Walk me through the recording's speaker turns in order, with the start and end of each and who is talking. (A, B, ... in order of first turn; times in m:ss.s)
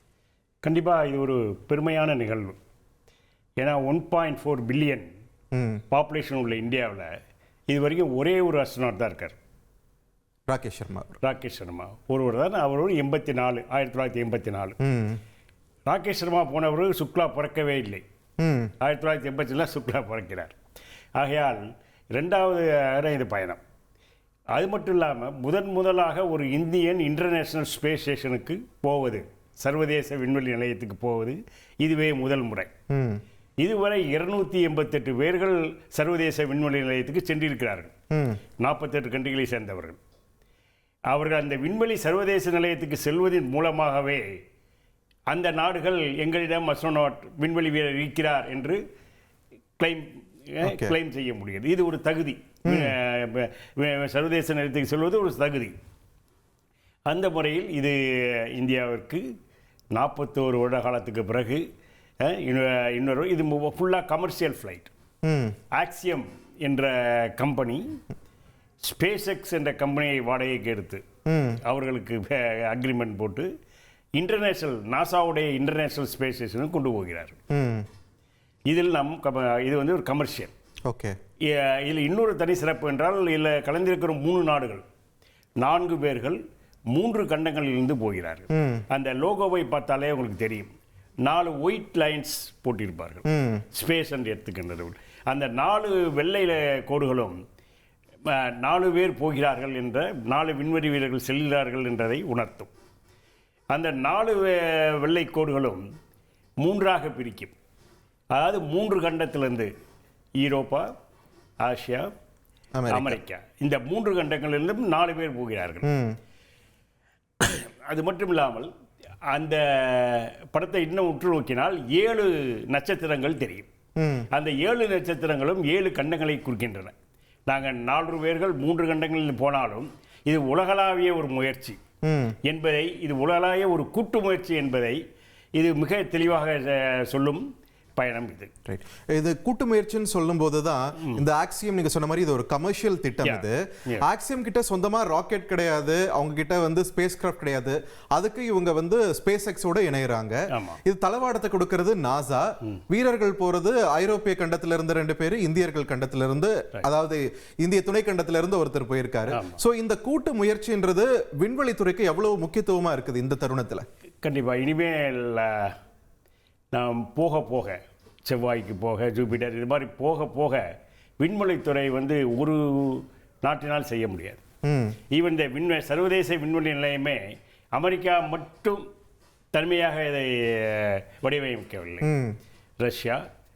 0:00.6-0:02.6 A
0:03.6-0:05.1 A
0:05.5-0:05.8 B
0:05.9-0:07.1 A
0:07.7-0:09.4 A
0:10.5-0:11.2 B
0:11.2-0:14.8 A
0:14.8-0:15.2 B
0:15.9-0:18.0 A
0:18.4-0:18.7 B
0:18.8-0:20.6 A
0:21.2-0:23.6 A
0:24.5-0:32.7 A
0:32.9-0:33.2 B
0:33.6-0:37.9 A
0:38.1-0:38.4 B
0:38.6-0:40.0 A
0:41.1-0:44.2 A
0:45.3-0:48.8 A
0:49.8-0:55.7 A
0:50.6-0:50.9 B
0:52.7-0:52.9 B
0:57.1-0:59.2 A
0:59.9-1:01.6 A
1:02.2-1:04.9 A
1:05.2-1:05.6 B
1:05.7-1:07.8 A
1:08.8-1:11.0 A
1:11.3-1:11.6 B
1:11.6-1:13.5 A
1:14.2-1:17.4 A
1:17.5-1:17.8 B
1:18.7-1:20.5 A
1:20.9-1:21.1 B
1:21.5-1:24.8 A
1:25.6-1:26.4 A
1:26.9-1:30.7 A
1:28.5-1:28.8 B
1:31.2-1:37.4 A
1:33.3-1:33.6 B
1:38.2-1:42.7 A
1:43.7-1:45.8 A
1:46.6-1:47.5 A
1:48.3-1:49.7 A
1:50.4-1:50.9 A
1:51.6-1:52.1 A
1:52.8-1:53.2 B
1:52.9-1:55.8 A
1:55.8-1:56.2 B
1:57.4-1:58.7 A
1:59.3-2:03.7 A
2:04.0-2:04.3 B
2:04.3-2:06.9 A
2:07.5-2:11.8 A
2:12.0-2:12.4 B
2:12.4-2:15.0 A
2:15.6-2:17.4 A
2:18.0-2:18.5 A
2:18.6-2:43.8 B
2:23.2-2:24.0 A
2:30.5-2:30.8 A
2:39.3-2:39.6 A
2:44.2-2:45.7 A
2:46.7-2:50.6 A
2:51.2-2:54.4 A
2:54.6-2:55.0 B
2:55.1-2:57.2 A
2:57.7-2:58.8 A
2:59.5-3:02.1 A
3:02.0-3:02.4 B
3:02.8-3:03.2 A